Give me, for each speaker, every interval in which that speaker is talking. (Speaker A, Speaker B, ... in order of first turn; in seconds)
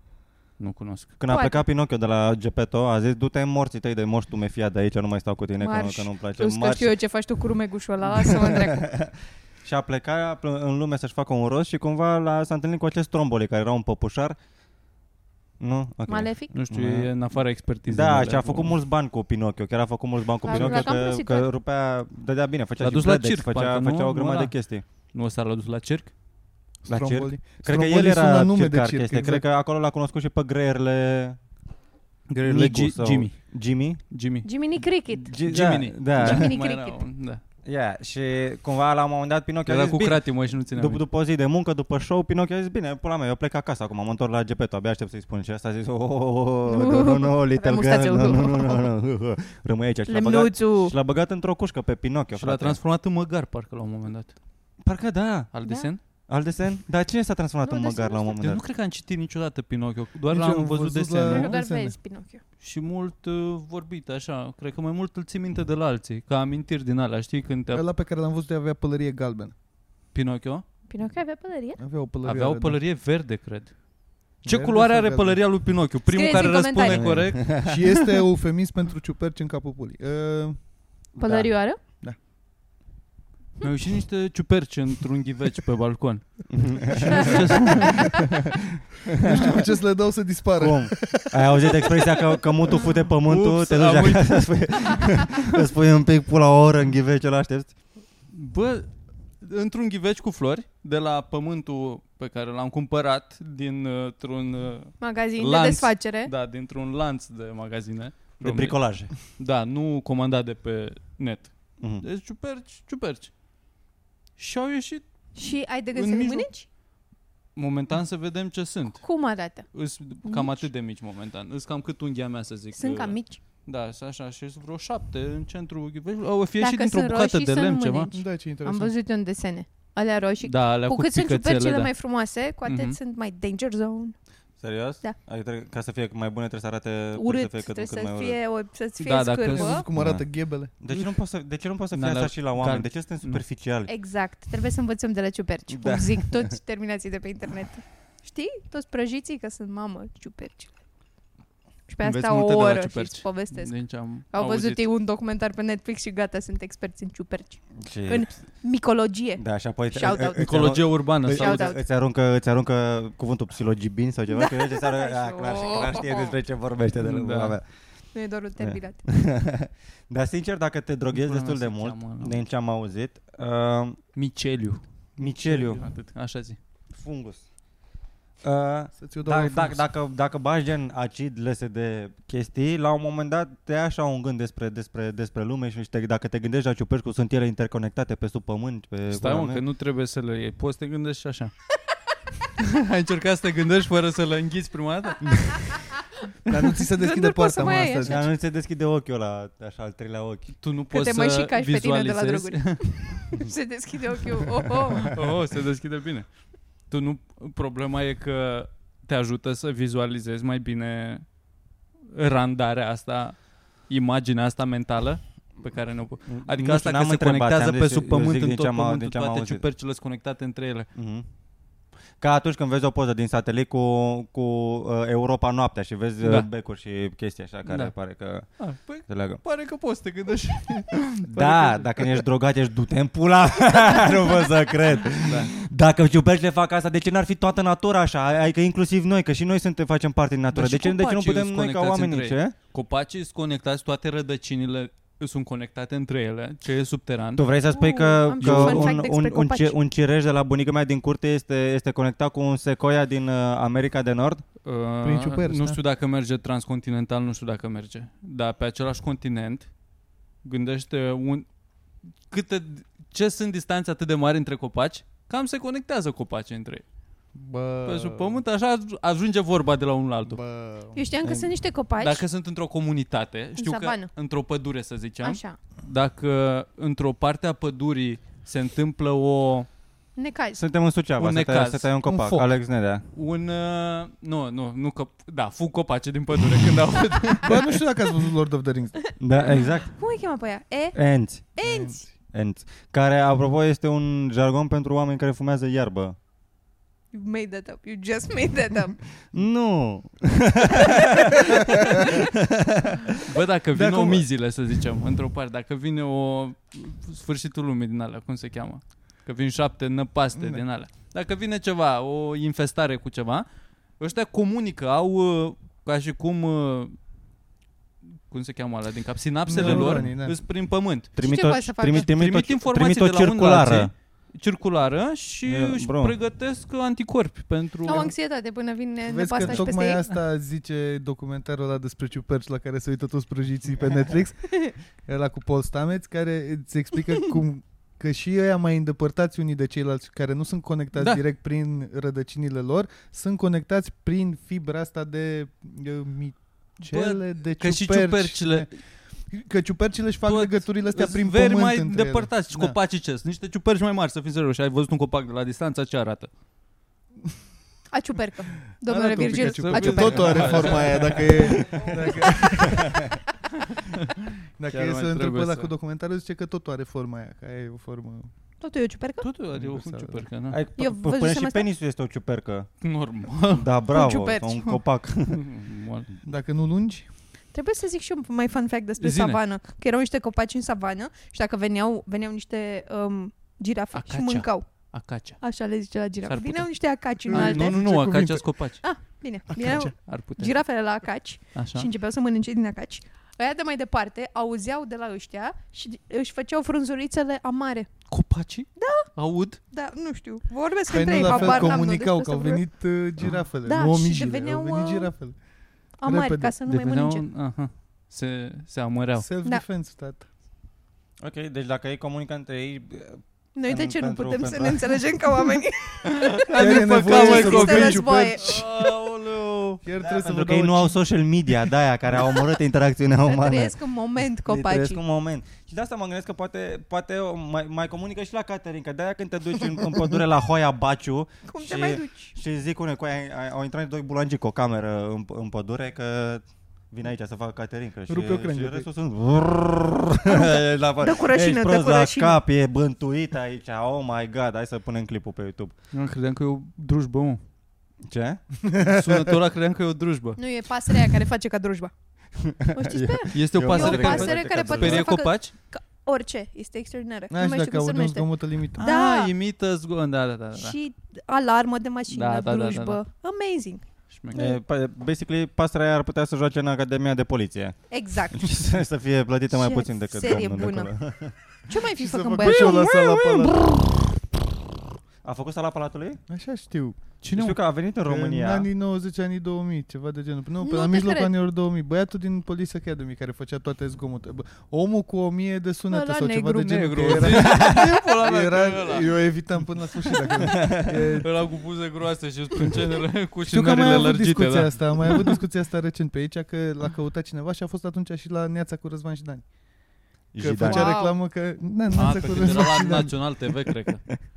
Speaker A: 0.6-1.1, 16.5-18.8, 20.5-20.9, 22.8-26.1, 32.3-33.4, 34.1-34.5, 35.4-37.4, 39.7-41.0, 52.4-54.4, 55.5-56.0, 58.4-61.5, 62.6-67.8, 70.1-70.7, 72.2-73.8, 74.4-77.8, 83.6-88.2, 93.2-95.3, 98.3-98.9, 99.4-113.3, 114.4-115.1, 115.9-116.5, 117.6-128.1, 130.4-131.9, 132.7-133.0, 139.0-139.8, 140.9-141.2, 141.9-143.4, 152.0-154.8, 160.4-161.7, 167.0-167.6, 171.1-172.4, 174.2-176.6, 189.1-191.5, 192.6-195.8, 200.6-203.3, 205.1-206.3, 206.9-211.3, 212.1-220.9, 227.7-227.9, 228.6-232.2, 235.2-235.5, 240.5-247.4, 248.4-248.9, 254.6-259.7, 260.4-261.5, 262.2-266.8, 267.9-270.4, 272.0-279.7, 281.2-281.9, 283.1-287.8, 303.3-313.5, 314.0-317.0, 318.3-321.2, 321.9-328.1, 341.0-341.2, 346.9-348.7, 350.3-356.3, 359.3-361.7, 364.7-365.7, 369.2-370.6, 372.8-373.7, 375.3-376.1, 379.0-379.4, 383.9-385.4, 386.2-390.6, 391.5-391.9, 398.1-399.6, 401.1-401.8, 406.7-409.3, 416.1-419.8, 445.9-447.4, 448.9-450.4, 453.3-455.5, 458.8-460.8, 462.1-463.0, 464.1-464.5, 477.2-477.6, 486.6-489.2, 491.2-495.4, 501.9-504.1
Speaker B: 1.2-6.9, 8.2-14.4, 15.6-17.1, 17.9-24.8, 26.9-31.4, 32.4-34.0, 35.2-36.5, 37.6-52.8, 54.8-55.5, 56.1-58.6, 76.8-77.8, 81.2-81.5, 86.5-89.6, 90.6-97.7, 108.4-109.1, 134.6-138.4, 140.0-143.9, 145.7-146.6, 157.8-158.4, 159.4-167.7, 168.6-174.0, 175.2-175.9, 176.9-177.4, 178.4-189.6, 195.3-195.6, 198.0-200.6, 216.3-219.6, 220.9-221.3, 222.2-229.4, 231.3-242.6, 247.3-254.4, 271.2-271.5, 280.6-283.0, 289.2-289.9, 290.9-291.5, 292.3-296.2, 299.3-303.1, 319.5-320.1, 321.2-323.9, 325.5-326.2, 362.7-363.2, 370.5-372.7, 373.6-375.5, 411.2-414.8, 420.0-423.8, 424.4-445.7, 448.0-448.4, 452.4-455.2, 464.3-467.8, 468.3-471.4, 472.4-473.9, 475.2-476.2, 477.3-478.7, 487.5-487.9, 490.6-491.1, 500.3-501.0
Speaker C: 1.3-1.6, 5.6-8.9, 16.1-16.5, 20.4-21.5, 34.4-35.4, 36.2-37.0, 46.7-48.9, 50.1-50.9, 55.6-55.9, 57.6-58.4, 61.3-62.4, 70.9-71.8, 76.1-77.2, 81.2-81.8, 105.0-106.3, 115.3-116.7, 119.0-119.7, 120.2-120.7, 122.7-123.4, 126.6-134.2, 137.2-139.9, 143.9-150.7, 151.9-161.8, 164.3-166.4, 168.1-169.0, 197.0-198.2, 200.9-205.2, 247.7-249.8, 270.9-272.2, 273.6-274.1, 275.2-275.6, 280.1-280.6, 289.4-292.1, 297.1-299.0, 300.7-302.3, 321.2-322.1, 327.9-330.0, 357.9-361.9, 368.6-369.3, 370.8-371.7, 373.9-374.8, 377.5-384.9, 385.4-387.8, 388.8-397.9, 398.8-399.1, 399.7-402.6, 403.7-405.1, 406.0-407.2, 413.6-418.8, 423.3-425.0, 431.5-432.3, 440.3-442.4, 450.4-451.9, 452.7-459.3, 460.6-464.6, 467.9-468.6, 469.5-470.9, 471.7-472.9, 480.6-481.3, 485.9-487.2, 500.6-501.2
Speaker D: 26.9-29.4, 60.3-62.0, 67.7-69.5, 71.8-72.8, 74.4-75.4, 77.6-80.7, 89.2-92.0, 128.1-128.9, 139.5-140.7, 179.0-179.9, 196.5-198.3, 255.0-255.8, 267.4-268.4, 270.3-271.0, 282.1-282.4, 287.4-289.0, 291.6-292.1, 303.8-304.3, 310.4-310.6, 319.5-320.4, 329.1-352.8, 358.8-363.0, 364.6-368.3, 369.5-370.3, 376.2-377.1, 387.2-388.5, 389.6-389.9, 400.9-405.4, 406.0-406.6, 409.2-410.3, 416.5-418.7, 419.8-421.0, 438.1-438.9, 448.6-449.2, 457.3-458.9, 472.0-473.6, 476.3-477.0, 478.0-491.3, 493.5-499.5, 500.4-503.3